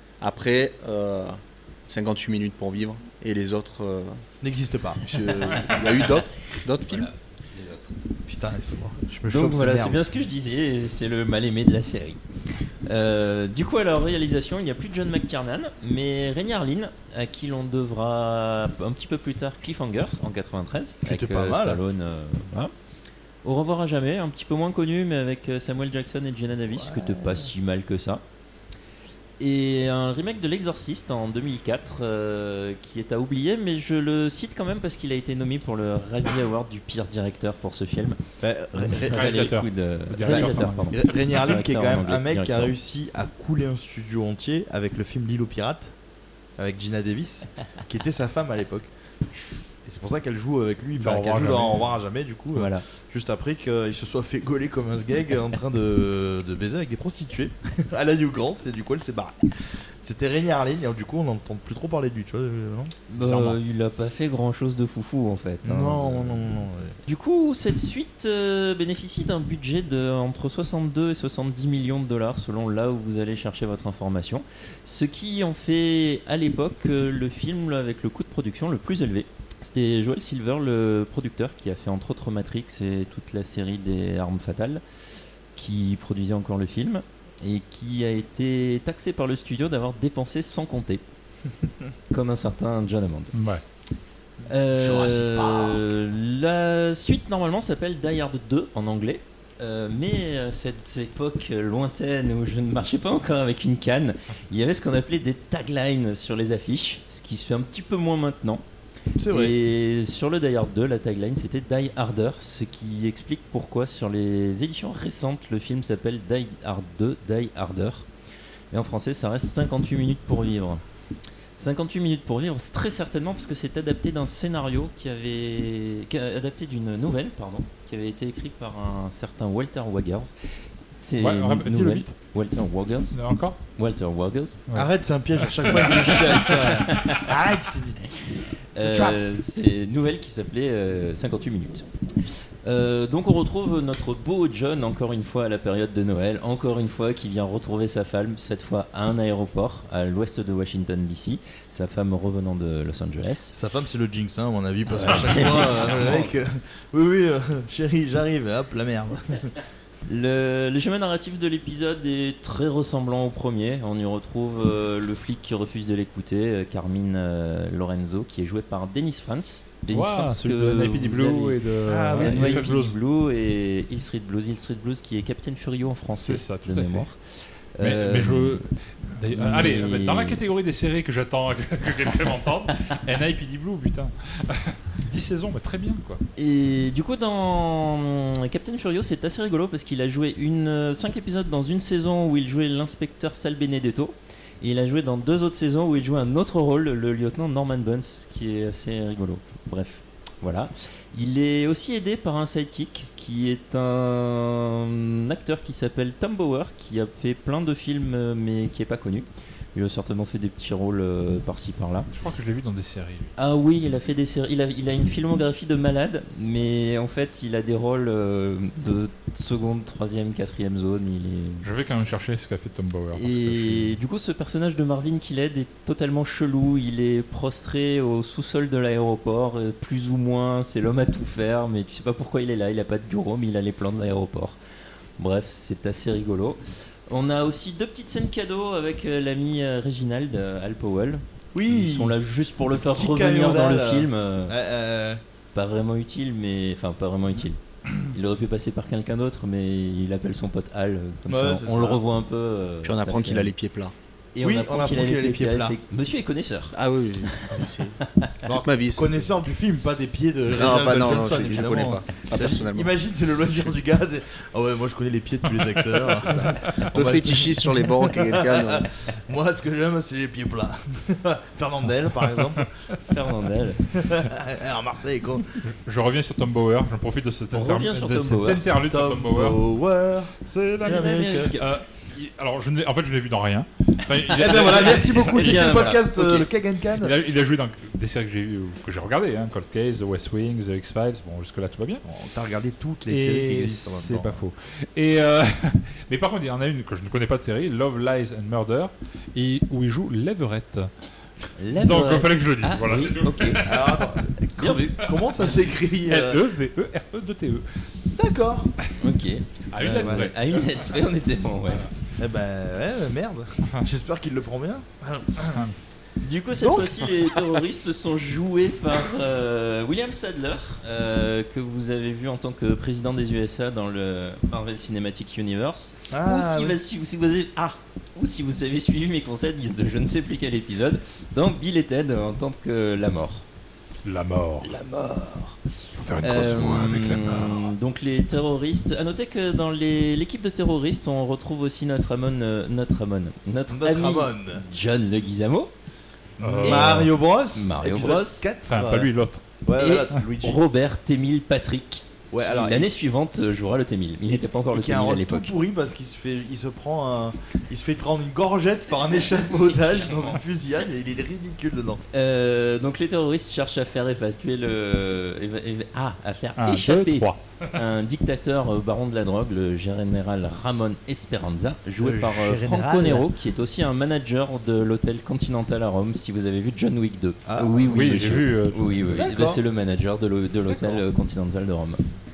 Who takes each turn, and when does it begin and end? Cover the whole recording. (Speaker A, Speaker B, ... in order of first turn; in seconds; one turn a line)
Speaker A: 0.2-4.2
Speaker B: 4.4-5.1
Speaker A: 5.0-7.1
Speaker C: 6.9-7.9
Speaker B: 8.3-10.0
Speaker C: 9.3-12.2
Speaker C: 12.8-22.7
Speaker B: 21.0-21.8
Speaker C: 23.4-28.2
Speaker B: 26.7-27.5
Speaker C: 29.4-38.2
Speaker B: 38.4-39.5
Speaker C: 38.8-42.7
Speaker D: 38.8-41.1
Speaker B: 40.2-45.9
Speaker B: 46.6-48.9
Speaker B: 49.8-59.4
Speaker D: 51.0-52.0
Speaker C: 52.5-52.8
Speaker B: 60.0-62.9
Speaker C: 63.1-66.5
Speaker D: 63.2-63.6
Speaker B: 65.6-67.0
Speaker C: 67.0-84.8
Speaker C: 85.5-91.0
Speaker C: 92.1-93.3
Speaker D: 93.3-93.6
Speaker C: 94.5-108.6
Speaker B: 109.2-109.5
Speaker C: 109.3-118.1
Speaker C: 118.7-120.8
Speaker C: 121.6-130.3
Speaker C: 131.0-134.6
Speaker D: 131.2-132.1
Speaker D: 133.1-133.6
Speaker D: 134.7-137.1
Speaker B: 134.7-138.0
Speaker C: 135.7-137.3
Speaker C: 138.7-141.9
Speaker B: 138.8-139.2
Speaker C: 142.6-153.5
Speaker B: 153.5-159.5
Speaker C: 154.9-156.3
Speaker C: 160.1-171.6
Speaker D: 169.9-173.0
Speaker B: 171.9-172.8
Speaker C: 172.1-177.2
Speaker D: 176.1-177.1
Speaker C: 177.8-178.6
Speaker D: 177.8-186.2
Speaker C: 179.3-180.4
Speaker C: 186.4-212.1
Speaker D: 212.1-213.3
Speaker C: 213.4-221.7
Speaker D: 221.6-224.0
Speaker C: 223.1-234.6
Speaker C: 235.2-244.5
Speaker B: 241.5-242.2
Speaker B: 242.8-245.2
Speaker C: 245.5-253.5
Speaker B: 251.3-252.0
Speaker A: 252.8-253.9
Speaker C: 254.3-256.8
Speaker B: 254.4-255.8
Speaker A: 256.7-258.0
Speaker C: 257.3-257.7
Speaker B: 258.4-272.7
Speaker A: 258.6-259.3
Speaker A: 260.5-262.9
Speaker D: 265.6-266.6
Speaker A: 266.9-268.9
Speaker D: 272.2-272.6
Speaker C: 273.1-273.9
Speaker B: 273.9-275.5
Speaker D: 275.6-279.6
Speaker C: 277.5-279.3
Speaker B: 279.2-281.5
Speaker D: 280.4-285.9
Speaker C: 280.8-281.7
Speaker B: 284.3-287.1
Speaker C: 284.3-286.5
Speaker D: 287.0-292.0
Speaker B: 292.0-294.4
Speaker D: 293.1-300.9
Speaker C: 301.6-303.7
Speaker D: 301.7-304.2
Speaker B: 303.6-306.4
Speaker C: 304.6-305.2
Speaker D: 306.0-307.7
Speaker B: 308.1-308.7
Speaker C: 309.0-311.9
Speaker D: 309.7-311.0
Speaker B: 309.8-310.3
Speaker B: 312.2-315.6
Speaker C: 316.2-333.4
Speaker B: 316.6-317.4
Speaker B: 326.1-326.8
Speaker D: 334.0-334.7
Speaker C: 334.6-335.6
Speaker D: 335.9-337.7
Speaker C: 336.2-345.7
Speaker B: 343.7-344.6
Speaker D: 346.4-347.1
Speaker B: 346.4-349.1
Speaker C: 346.6-348.5
Speaker D: 348.7-349.4
Speaker B: 349.6-350.6
Speaker C: 349.8-355.5
Speaker B: 352.3-352.9
Speaker B: 354.3-362.0
Speaker C: 359.7-360.3
Speaker C: 362.1-382.0
Speaker D: 366.6-367.7
Speaker B: 372.0-373.3
Speaker B: 377.4-378.1
Speaker D: 377.8-379.2
Speaker B: 379.1-379.6
Speaker D: 380.6-381.0